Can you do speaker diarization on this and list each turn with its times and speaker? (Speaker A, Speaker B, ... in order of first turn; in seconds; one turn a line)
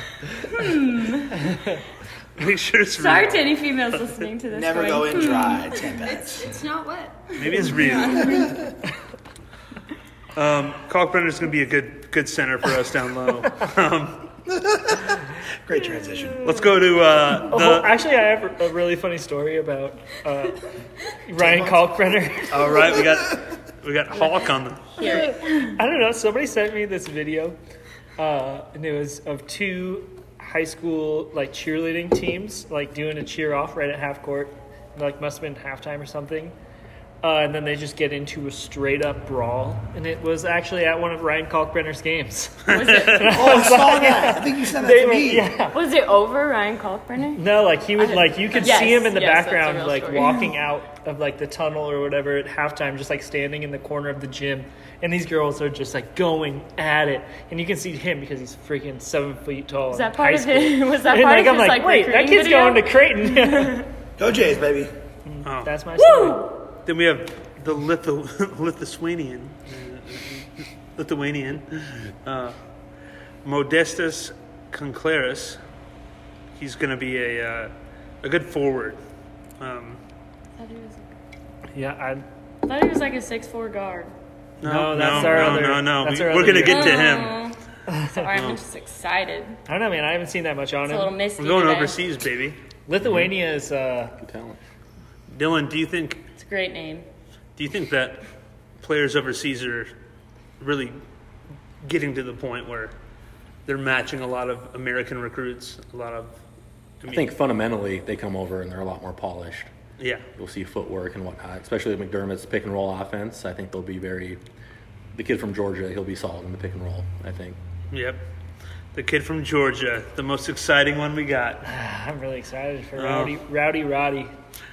Speaker A: 0.4-1.5
Speaker B: 2.4-4.0
Speaker A: 3.0-8.7
Speaker C: 4.5-6.5
Speaker B: 7.4-8.5
Speaker B: 10.3-14.3
Speaker C: 14.5-16.6
Speaker B: 16.4-17.9
Speaker D: 17.5-20.7
Speaker D: 21.2-22.8
Speaker C: 21.4-22.0
Speaker B: 22.5-25.0
Speaker A: 25.0-25.8
Speaker D: 25.0-27.6
Speaker D: 28.2-36.5
Speaker D: 37.2-45.8
Speaker B: 42.7-43.3
Speaker A: 42.7-43.7
Speaker C: 43.3-45.6
Speaker A: 45.7-50.5
Speaker D: 47.4-63.9
Speaker A: 59.9-63.9
Speaker C: 64.2-64.9
Speaker D: 65.3-66.5
Speaker B: 65.4-65.7
Speaker A: 66.0-66.6
Speaker B: 66.8-72.6
Speaker B: 73.5-75.6
Speaker B: 76.6-79.0
Speaker B: 79.6-80.0
Speaker A: 80.6-81.1
Speaker D: 81.7-82.2
Speaker A: 82.6-84.1
Speaker B: 84.6-87.5
Speaker D: 84.6-87.1
Speaker A: 85.1-85.7
Speaker A: 86.6-87.6
Speaker D: 87.9-88.3
Speaker A: 88.1-89.6
Speaker B: 88.3-88.6
Speaker D: 89.7-91.2
Speaker A: 90.9-92.0
Speaker B: 91.4-92.6
Speaker D: 92.9-94.2
Speaker E: 93.0-93.3
Speaker E: 94.2-94.6
Speaker B: 95.3-96.3
Speaker A: 96.3-97.1
Speaker B: 97.6-98.2
Speaker B: 98.8-99.9
Speaker B: 100.6-101.0
Speaker B: 101.8-103.0
Speaker B: 103.7-106.4
Speaker B: 107.0-107.3
Speaker E: 107.1-109.7
Speaker B: 110.0-110.3
Speaker E: 110.4-114.4
Speaker E: 115.1-117.6
Speaker B: 117.9-118.2
Speaker B: 118.9-121.7
Speaker D: 121.7-124.3
Speaker B: 123.0-123.4